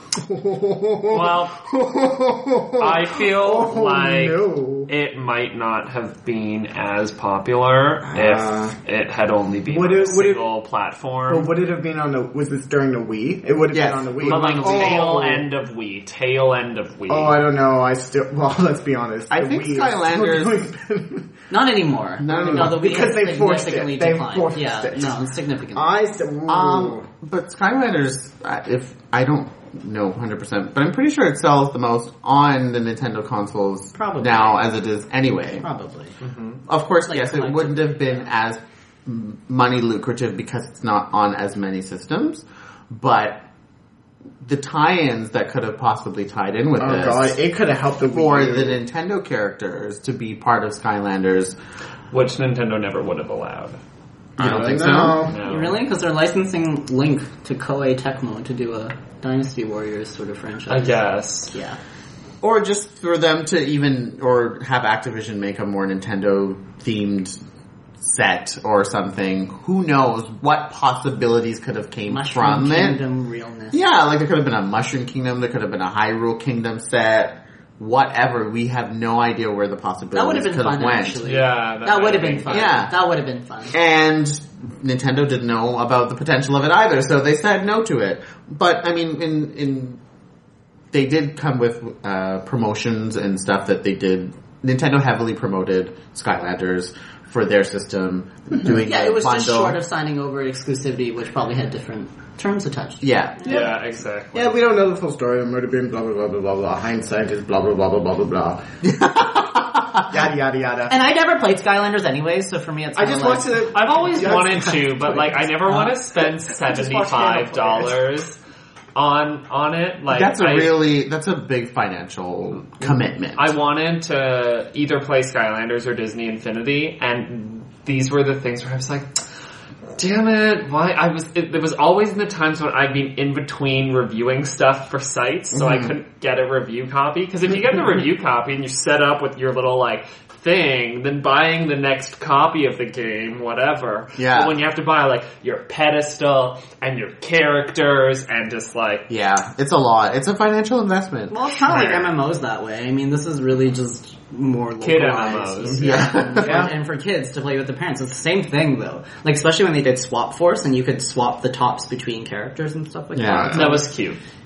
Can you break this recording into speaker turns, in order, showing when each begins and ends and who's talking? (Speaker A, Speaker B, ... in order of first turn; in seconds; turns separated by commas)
Speaker A: 0.2-4.9, Speaker B: 1.1-1.6, Speaker B: 2.8-11.5, Speaker A: 8.1-8.7, Speaker A: 9.7-10.4, Speaker A: 11.3-15.4, Speaker C: 13.7-15.1, Speaker B: 14.2-17.4, Speaker A: 17.1-21.3, Speaker C: 19.3-20.6, Speaker D: 21.5-26.0, Speaker C: 22.2-22.9, Speaker A: 22.2-25.2, Speaker A: 25.8-27.1, Speaker C: 26.5-35.6, Speaker D: 34.0-34.6, Speaker D: 35.6-36.1, Speaker B: 36.2-36.6, Speaker C: 36.7-43.5, Speaker D: 37.1-38.2, Speaker C: 44.4-47.4, Speaker A: 46.8-48.8, Speaker C: 48.1-51.6, Speaker B: 52.1-53.8, Speaker C: 54.4-55.3, Speaker A: 54.4-55.4, Speaker B: 55.2-55.8, Speaker D: 55.4-61.8, Speaker B: 60.7-61.5, Speaker C: 62.4-67.4, Speaker C: 68.0-73.0, Speaker D: 72.1-73.8, Speaker C: 73.7-81.2, Speaker D: 80.1-83.8, Speaker B: 81.2-82.7, Speaker C: 82.5-82.9, Speaker C: 83.7-90.0, Speaker C: 90.9-99.8, Speaker D: 98.8-103.1, Speaker C: 103.0-103.6, Speaker B: 103.5-104.5, Speaker A: 103.5-103.8, Speaker A: 104.3-108.6, Speaker C: 108.8-110.1, Speaker A: 110.1-111.0, Speaker D: 110.9-113.6, Speaker A: 113.0-118.0, Speaker B: 113.7-118.4, Speaker B: 119.0-120.8, Speaker C: 120.1-123.5, Speaker B: 123.4-129.2, Speaker B: 130.0-149.1, Speaker C: 135.5-135.9, Speaker C: 144.2-144.6, Speaker C: 149.1-151.9, Speaker D: 151.3-163.9, Speaker B: 151.7-152.1, Speaker B: 154.8-156.1, Speaker C: 155.7-156.7, Speaker A: 156.4-156.7, Speaker C: 163.1-163.8, Speaker B: 163.5-164.2